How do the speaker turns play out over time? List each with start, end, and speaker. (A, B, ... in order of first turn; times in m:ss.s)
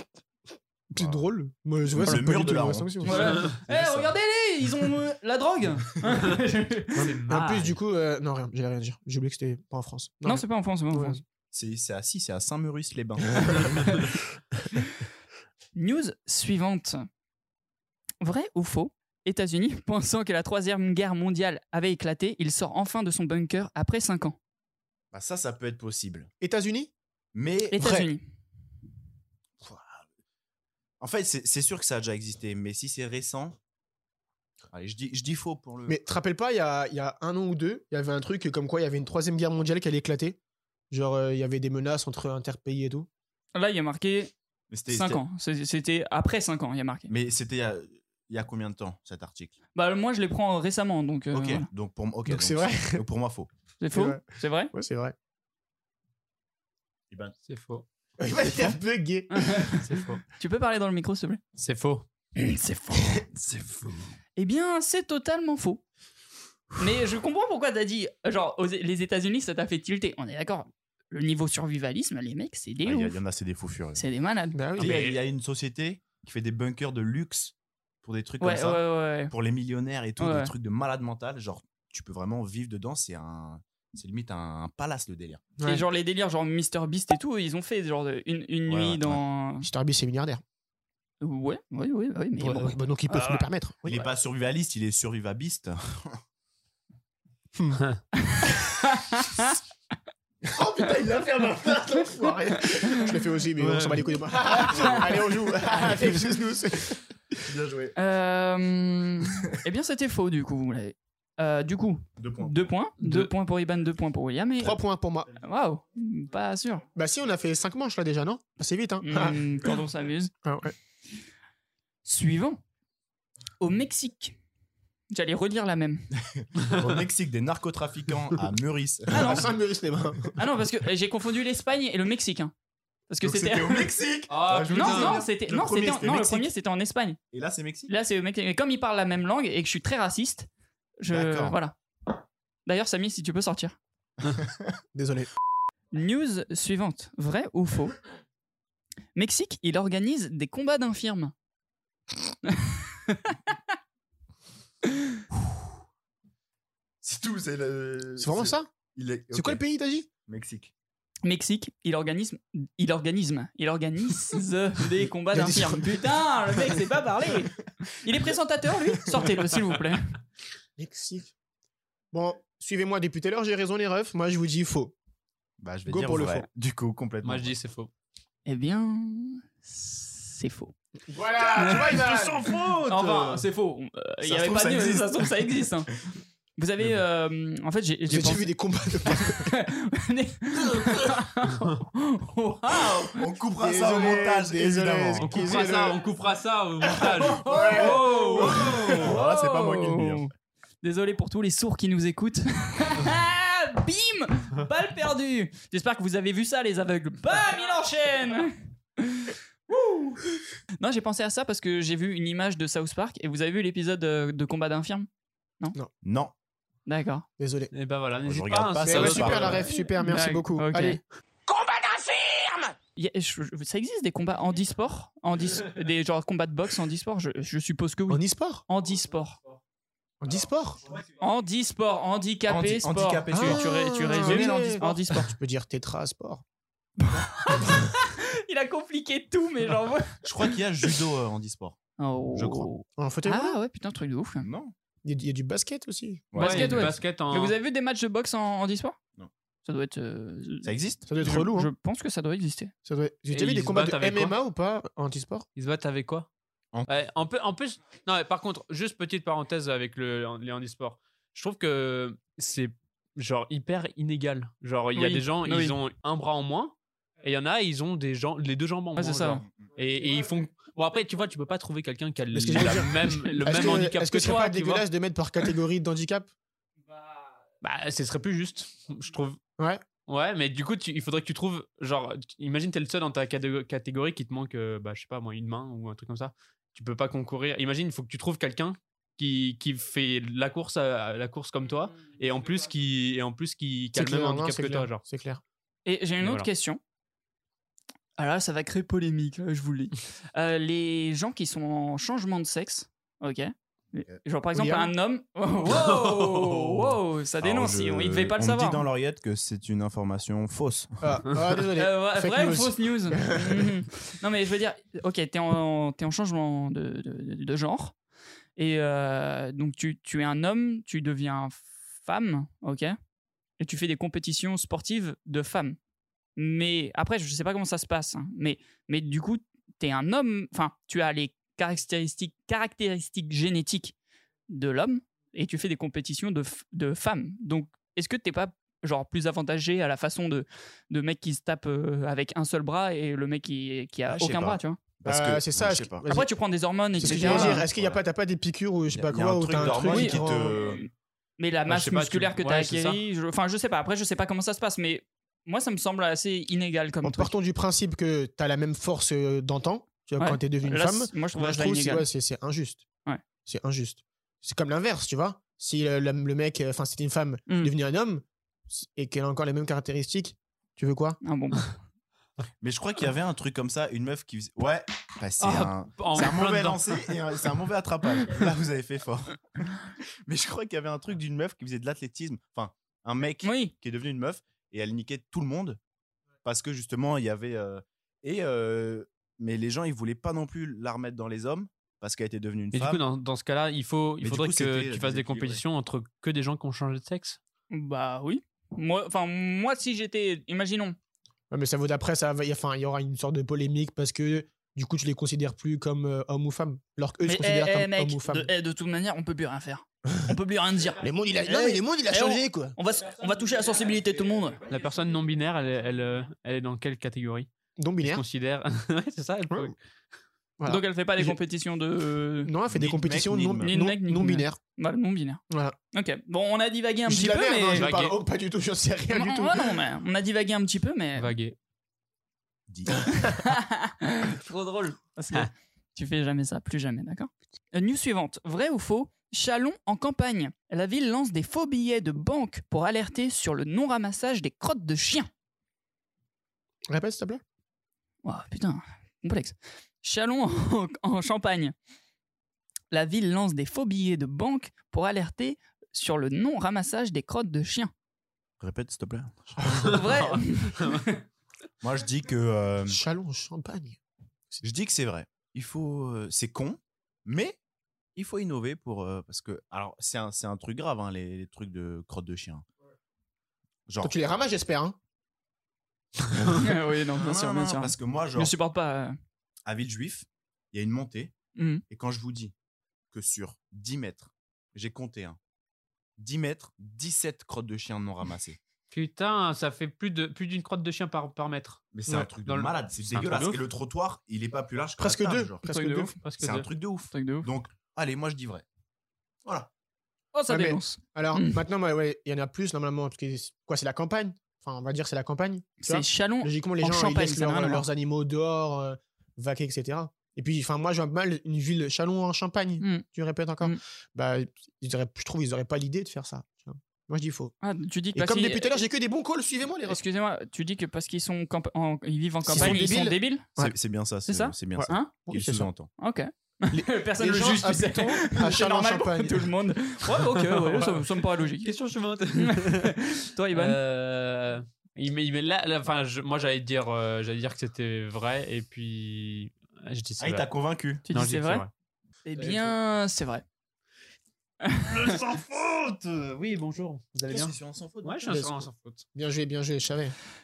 0:00.9-0:03.5 A
0:01.0-0:01.2 B
0:01.9-0:04.2 B
0:03.0-0:07.7 C
0:06.9-0:11.2 A
0:07.0-0:07.5 D
0:10.2-0:11.2 C
0:11.5-0:14.2 B
0:15.8-0:17.0 C
0:18.2-0:24.4 C
0:25.1-0:26.3 B
0:26.4-0:26.9 A
0:27.3-0:27.9 B
0:27.7-0:28.2 C
0:27.8-0:28.1 A
0:29.6-0:30.0 B
0:31.0-0:33.6 B
0:34.7-0:36.0 B
0:35.9-0:40.4 A
0:40.9-0:43.1 A
0:43.6-0:44.3 C
0:44.7-0:45.2 B
0:44.9-0:47.1 C
0:47.1-0:49.6 B
0:49.8-0:51.7 C
0:51.3-0:53.5 B
0:52.3-0:53.0 A
0:53.8-0:54.7 C
0:53.9-0:55.2 A
0:57.4-0:57.9 D
0:58.2-0:59.7 A
0:59.3-0:59.8 C
0:59.8-1:00.2 D
1:00.4-1:01.4 C
1:01.6-1:02.1 D
1:02.4-1:03.3 C
1:03.3-1:04.0 B
1:04.4-1:05.8 C
1:06.8-1:13.2 C
1:12.8-1:14.0 B
1:14.0-1:14.6 C
1:14.5-1:15.1 A
1:14.8-1:25.4 B
1:14.8-1:15.2 D
1:18.4-1:19.3 C
1:20.2-1:20.5 C
1:25.6-1:25.8 A
1:25.6-1:29.7 C
1:28.7-1:29.2 B
1:29.6-1:30.4 A
1:31.2-1:34.0 C
1:32.4-1:34.0 A
1:33.9-1:36.2 B
1:38.2-1:39.6 C
1:40.5-1:42.4 B
1:40.6-1:47.4 A
1:43.6-1:44.2 D
1:44.6-1:45.0 C
1:47.5-1:48.0 B
1:48.0-1:54.8 C
1:52.2-1:52.7 B
1:53.0-1:53.3 D
1:54.6-1:55.3 A
1:55.3-1:56.8 C
1:57.0-1:59.4 A
1:59.0-2:00.3 C
2:00.4-2:00.7 A
2:02.0-2:02.6 C
2:03.6-2:04.4 C
2:05.1-2:06.1 C
2:06.3-2:09.5 B
2:09.1-2:10.4 A
2:09.1-2:09.5 C
2:10.4-2:12.5 C
2:13.1-2:13.9 C
2:13.2-2:16.5 B
2:14.3-2:15.2 D
2:14.7-2:17.2 C
2:17.3-2:17.9 B
2:17.9-2:21.8 C
2:21.1-2:21.6 B
2:22.7-2:23.8 C
2:24.9-2:25.3 A
2:25.9-2:28.0 C
2:29.2-2:31.3 C
2:32.5-2:33.6 C
2:37.0-2:39.6 B
2:38.2-2:38.7 A
2:39.3-2:40.1 A
2:40.3-2:40.7 B
2:41.2-2:50.2 C
2:45.3-2:46.0 A
2:50.8-2:51.4 A
2:52.1-2:55.0 A
2:55.6-2:57.6 B
2:55.9-2:56.5 A
2:57.2-2:57.9 D
2:58.5-3:00.8 C
3:01.1-3:02.5 A
3:01.6-3:03.3 D
3:02.0-3:03.4 B
3:02.9-3:05.9 C
3:04.2-3:05.4 B
3:06.6-3:08.5 C
3:08.1-3:09.5 A
3:09.1-3:13.2 C
3:13.2-3:15.7 B
3:13.6-3:16.0 A
3:15.2-3:19.0 D
3:16.9-3:19.0 A
3:17.2-3:20.3 C
3:18.4-3:20.3 B
3:20.8-3:30.2 C
3:30.8-3:35.1 C
3:36.0-3:36.3 B
3:36.9-3:37.3 C
3:37.4-3:37.7 A
3:37.7-3:39.8 D
3:38.3-3:39.7 B
3:38.8-3:41.0 A
3:40.0-3:41.0 C
3:43.0-3:49.4 C
3:48.1-3:48.6 A
3:50.2-3:50.8 A
3:51.2-3:55.3 C
3:52.5-3:55.0 B
3:53.3-3:56.4 A
3:57.0-4:00.5 C
4:00.2-4:01.8 B
4:02.0-4:04.5 C
4:02.4-4:02.7 B
4:03.0-4:03.6 A
4:04.4-4:04.7 B
4:05.0-4:06.3 A
4:06.3-4:06.9 B
4:06.4-4:09.0 C
4:06.4-4:07.6 D
4:09.6-4:12.7 C
4:10.6-4:11.1 B
4:11.1-4:11.7 A
4:12.9-4:15.5 A
4:13.3-4:14.3 D
4:15.6-4:16.3 D
4:16.9-4:34.8 D
4:25.0-4:25.8 C
4:29.0-4:29.4 C
4:32.3-4:36.3 A
4:33.1-4:33.4 C
4:37.6-4:39.4 D
4:39.6-4:39.8 A
4:40.1-4:55.0 D
4:53.9-4:55.4 A
4:55.9-4:56.8 C
4:56.2-4:56.5 D
4:58.2-5:08.9 C
5:04.6-5:04.9 A
5:05.7-5:06.9 D
5:07.4-5:11.1 B
5:11.0-5:13.8 A
5:11.8-5:18.0 C
5:18.6-5:23.0 C
5:23.6-5:25.8 C
5:26.4-5:34.0 C
5:34.5-5:44.8 C
5:44.1-5:46.1 B
5:45.0-5:46.3 A
5:46.1-5:47.6 C
5:47.0-5:50.6 A
5:47.0-5:48.0 B
5:48.9-5:50.8 B
5:49.8-5:57.3 C
5:51.7-5:53.0 D
5:57.0-6:02.8 A
6:00.2-6:02.1 C
6:03.4-6:11.2 A
6:11.2-6:11.8 C
6:12.6-6:25.8 B
6:15.4-6:17.2 D
6:23.4-6:23.7 C
6:26.4-6:33.0 B
6:32.7-6:37.4 D
6:34.2-6:35.6 B
6:37.7-6:41.0 C
6:41.5-6:48.5 A
6:47.2-6:54.6 C
6:51.0-6:52.8 A
6:54.7-6:57.5 D
6:57.8-6:58.2 A
6:58.0-6:59.8 D
7:00.6-7:01.4 A
7:00.7-7:02.5 C
7:02.4-7:04.6 A
7:02.7-7:03.7 B
7:03.6-7:07.9 C
7:05.5-7:05.8 A
7:07.1-7:09.8 A
7:07.8-7:08.2 D
7:09.1-7:11.3 C
7:11.2-7:11.6 D
7:12.7-7:13.1 B
7:13.1-7:25.3 C
7:26.9-7:27.4 A
7:28.2-7:31.8 C
7:32.9-7:37.9 C
7:38.6-7:40.1 B
7:39.8-7:41.2 C
7:39.9-7:41.1 D
7:41.8-7:43.0 B
7:42.9-7:44.0 A
7:44.6-7:47.6 B
7:48.2-7:52.7 B
7:53.9-7:54.2 B
7:54.0-7:55.0 A
7:56.3-7:58.5 B
7:56.6-7:59.2 C
7:59.6-8:01.3 B
8:01.6-8:01.8 C
8:01.9-8:02.5 B
8:03.1-8:05.4 B
8:06.2-8:08.6 B
8:08.9-8:13.6 D
8:11.9-8:15.6 B
8:15.0-8:16.2 A
8:15.7-8:16.1 C
8:16.2-8:16.7 D
8:16.4-8:18.6 B
8:17.1-8:17.5 C
8:20.3-8:21.6 C
8:20.5-8:37.5 A
8:25.8-8:27.9 C
8:32.8-8:33.0 C
8:37.6-8:38.8 C
8:38.1-8:40.0 A
8:39.9-8:43.5 C
8:42.4-8:43.8 A
8:42.5-8:42.9 B
8:43.6-8:45.9 B
8:44.3-8:45.1 C
8:44.8-8:45.7 A
8:46.0-8:51.7 C
8:46.7-8:49.5 A
8:50.4-8:51.1 D
8:51.6-9:00.5 D
8:52.4-8:53.8 C
9:00.2-9:01.0 B
9:01.1-9:01.7 C
9:01.1-9:01.7 D
9:02.2-9:03.4 C
9:02.4-9:02.6 D
9:04.6-9:04.9 C
9:04.9-9:09.0 D
9:07.3-9:08.4 B
9:08.2-9:10.2 A